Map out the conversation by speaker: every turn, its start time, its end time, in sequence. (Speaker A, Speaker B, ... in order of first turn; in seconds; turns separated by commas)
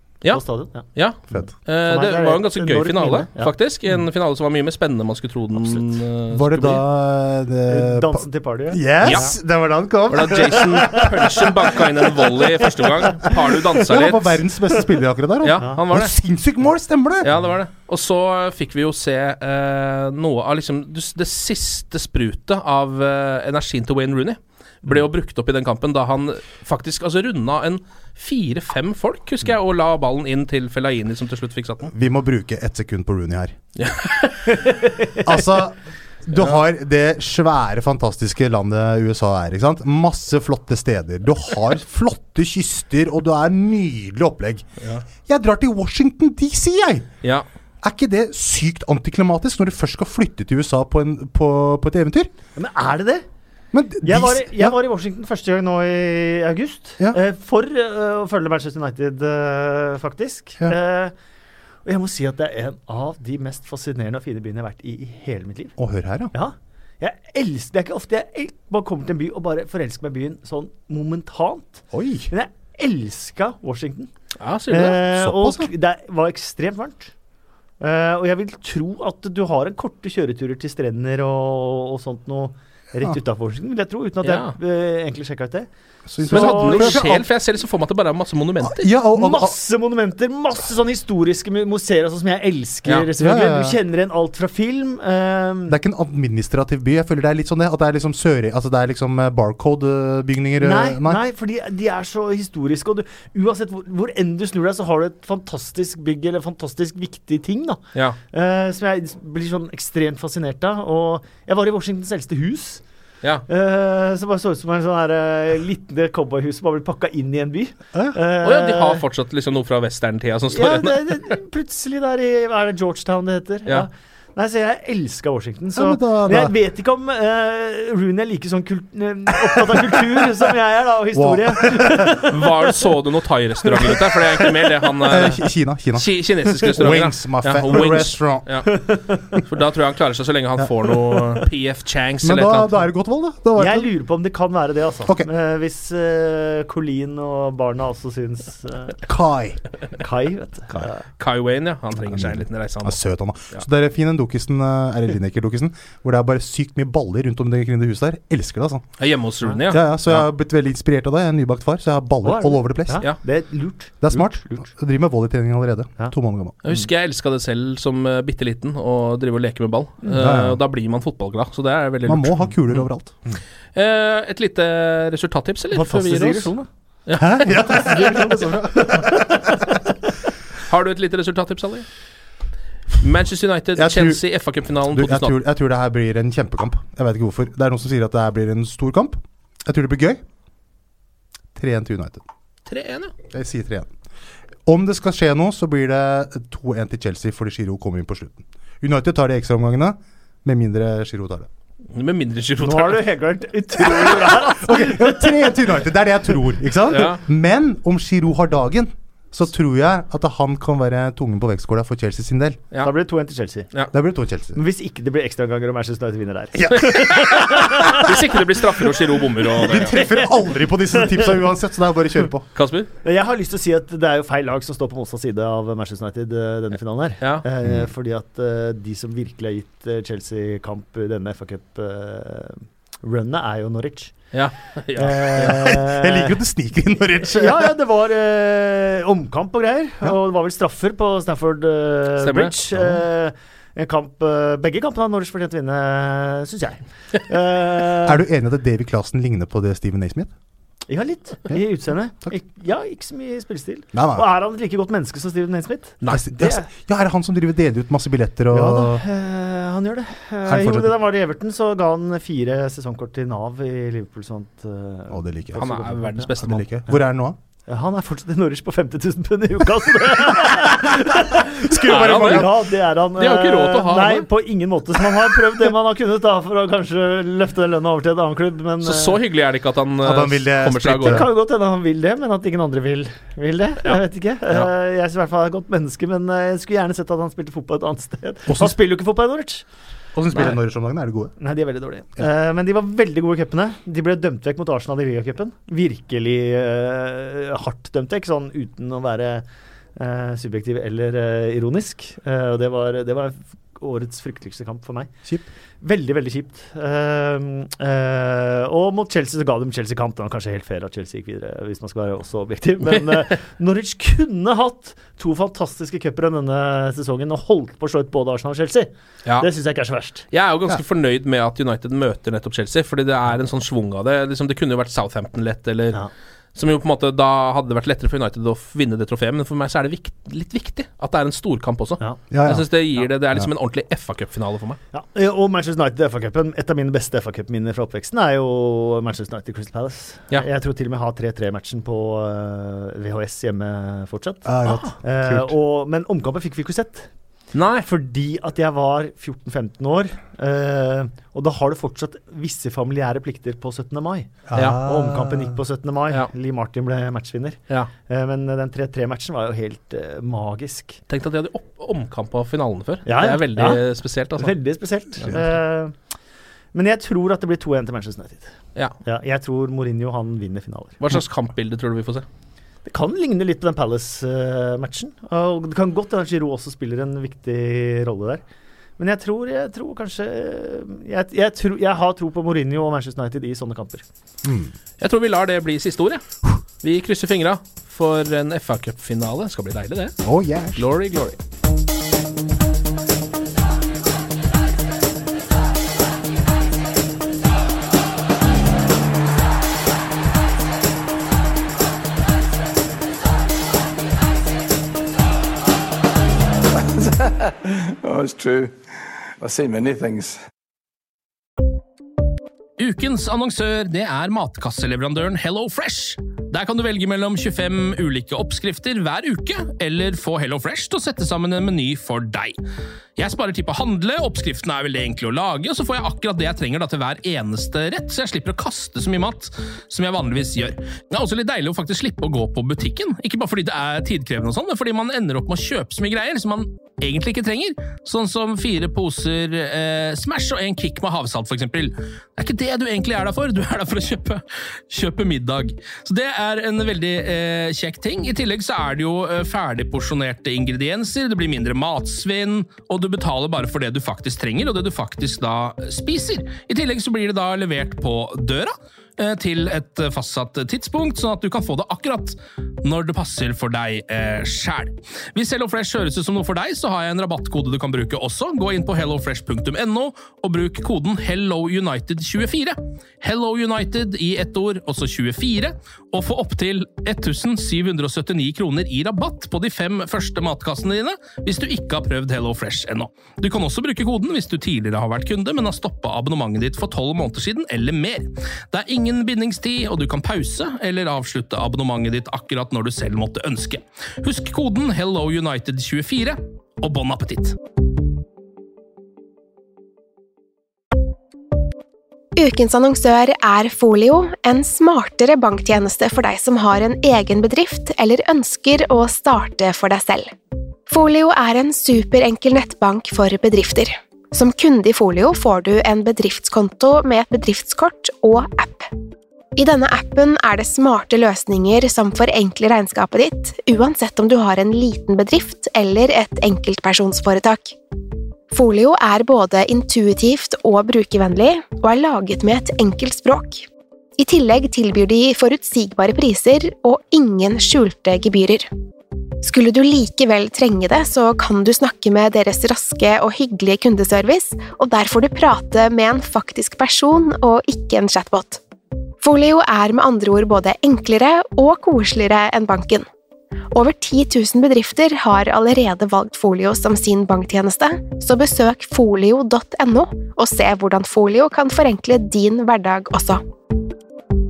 Speaker A: 0.2-6.8, Speaker B: 0.3-0.9, Speaker B: 1.9-3.5, Speaker B: 5.6-5.8, Speaker C: 6.3-11.1, Speaker B: 7.7-9.3, Speaker A: 9.0-9.3, Speaker A: 10.1-14.4, Speaker B: 10.6-11.0, Speaker C: 13.8-17.3, Speaker A: 15.4-16.1, Speaker A: 17.2-31.9, Speaker C: 31.9-33.6, Speaker A: 33.8-34.5, Speaker B: 34.5-35.2, Speaker C: 35.2-44.7, Speaker C: 45.2-47.1, Speaker C: 47.8-52.3, Speaker B: 52.6-53.2, Speaker C: 53.7-54.8, Speaker B: 54.0-61.1, Speaker B: 61.9-65.8, Speaker C: 65.8-66.3, Speaker B: 66.3-74.1, Speaker C: 71.9-72.3, Speaker A: 74.4-75.0, Speaker B: 74.7-77.1, Speaker C: 75.2-75.7, Speaker B: 77.8-85.7, Speaker A: 84.2-84.5, Speaker C: 86.1-87.3, Speaker B: 86.2-87.0, Speaker A: 86.3-88.9, Speaker C: 88.6-89.5, Speaker B: 89.2-95.8, Speaker C: 93.2-93.8, Speaker C: 95.7-101.2, Speaker B: 100.6-112.8, Speaker B: 113.5-119.0, Speaker A: 118.4-121.3, Speaker B: 120.5-132.3, Speaker C: 125.8-126.5, Speaker C: 131.1-132.3, Speaker A: 132.3-135.4, Speaker C: 135.1-138.5, Speaker A: 135.9-138.7, Speaker B: 138.7-139.4, Speaker A: 139.4-142.8, Speaker C: 142.2-143.9, Speaker B: 143.6-149.0, Speaker C: 149.1-149.6, Speaker B: 150.0-151.0, Speaker A: 150.8-153.0, Speaker C: 152.0-158.9, Speaker A: 159.0-160.2, Speaker C: 159.7-163.1, Speaker B: 162.2-164.7, Speaker C: 164.0-166.6, Speaker A: 166.6-172.8, Speaker C: 170.2-170.6, Speaker C: 172.1-173.1, Speaker A: 173.8-176.5, Speaker B: 175.7-176.7, Speaker A: 177.1-177.5, Speaker C: 177.2-179.6, Speaker A: 180.7-181.9, Speaker A: 183.0-185.3, Speaker C: 183.8-184.2, Speaker C: 184.8-190.2, Speaker C: 191.6-192.2, Speaker A: 192.7-193.1, Speaker C: 193.3-193.9, Speaker C: 194.7-201.5, Speaker A: 201.9-203.1, Speaker B: 202.6-205.6, Speaker C: 203.8-212.6, Speaker A: 206.9-207.2, Speaker B: 212.8-213.7, Speaker C: 213.9-214.6, Speaker B: 214.6-218.1, Speaker C: 216.6-217.2, Speaker A: 216.7-220.0, Speaker C: 219.6-222.5, Speaker B: 219.6-220.3, Speaker B: 220.9-221.3, Speaker A: 222.6-222.9, Speaker B: 223.0-234.2, Speaker C: 227.6-227.9, Speaker A: 234.3-235.6, Speaker B: 235.0-236.3, Speaker C: 235.4-237.7, Speaker B: 237.3-248.2, Speaker A: 242.2-242.6, Speaker C: 248.0-250.3, Speaker B: 250.9-256.7, Speaker C: 253.9-254.3, Speaker C: 256.1-259.0, Speaker B: 258.5-266.3, Speaker C: 260.4-260.9, Speaker C: 265.1-265.8, Speaker A: 265.6-266.7, Speaker C: 266.4-267.4, Speaker B: 267.7-279.2, Speaker C: 271.6-272.5, Speaker A: 271.9-272.5, Speaker A: 273.2-274.3, Speaker A: 278.8-281.3, Speaker C: 280.0-281.3, Speaker B: 281.1-289.7, Speaker C: 288.5-288.8, Speaker C: 290.1-291.3, Speaker B: 290.3-290.6, Speaker B: 291.4-299.4, Speaker B: 300.0-305.1, Speaker B: 305.8-320.3, Speaker A: 320.3-326.0, Speaker A: 326.6-334.8, Speaker C: 332.3-332.7, Speaker B: 334.9-344.5, Speaker C: 344.5-345.5, Speaker A: 344.6-344.9, Speaker B: 345.0-347.1, Speaker A: 347.5-347.9, Speaker B: 347.8-361.0, Speaker C: 354.5-355.6, Speaker A: 354.6-354.8, Speaker A: 361.1-364.5, Speaker B: 363.1-363.8, Speaker B: 364.4-366.0, Speaker B: 366.7-368.5, Speaker B: 369.1-371.0, Speaker A: 371.0-372.3, Speaker B: 372.9-378.4, Speaker B: 379.0-384.1, Speaker C: 384.4-384.7, Speaker A: 385.0-390.2, Speaker C: 390.2-390.9, Speaker A: 390.8-391.4, Speaker D: 407.1-408.7, Speaker D: 409.4-410.4, Speaker A: 412.8-422.6, Speaker A: 423.2-497.6, Speaker E: 502.4-510.3, Speaker E: 510.9-518.9, Speaker E: 519.6-527.8, Speaker E: 528.5-533.7, Speaker E: 534.2-538.7, Speaker E: 539.4-548.6, Speaker E: 549.2-553.1, Speaker E: 553.7-563.4